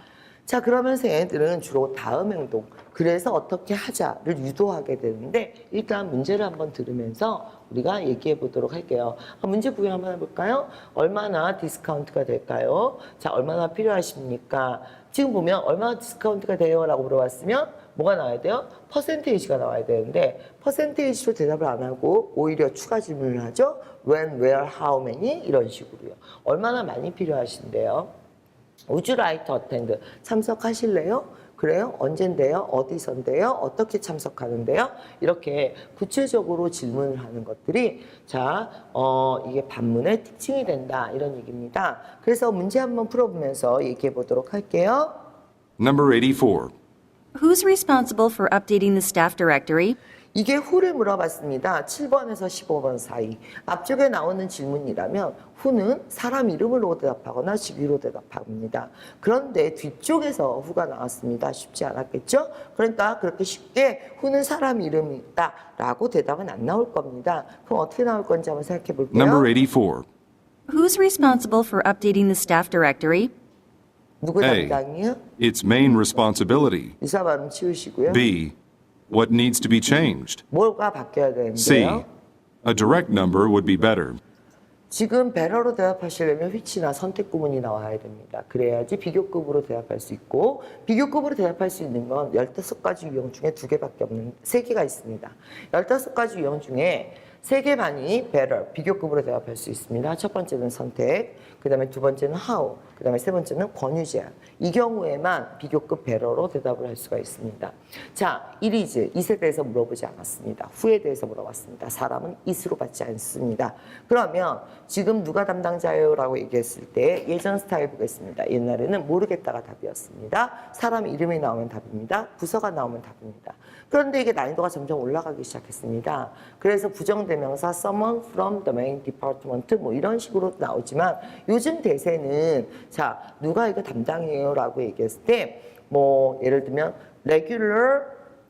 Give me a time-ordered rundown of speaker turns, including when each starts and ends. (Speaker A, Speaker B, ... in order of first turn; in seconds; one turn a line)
Speaker A: 0.5-28.1
Speaker A: 28.9-45.2
Speaker B: 45.8-46.7
Speaker C: 47.4-50.0
Speaker A: 50.3-69.5
Speaker B: 69.1-70.1
Speaker C: 70.7-73.3
Speaker A: 74.2-75.2
Speaker B: 74.4-74.8
Speaker B: 75.4-77.0
Speaker A: 77.0-78.2
Speaker B: 78.1-78.5
Speaker B: 79.1-80.4
Speaker A: 80.5-82.1
Speaker B: 81.6-82.0
Speaker B: 82.7-84.2
Speaker A: 84.9-138.2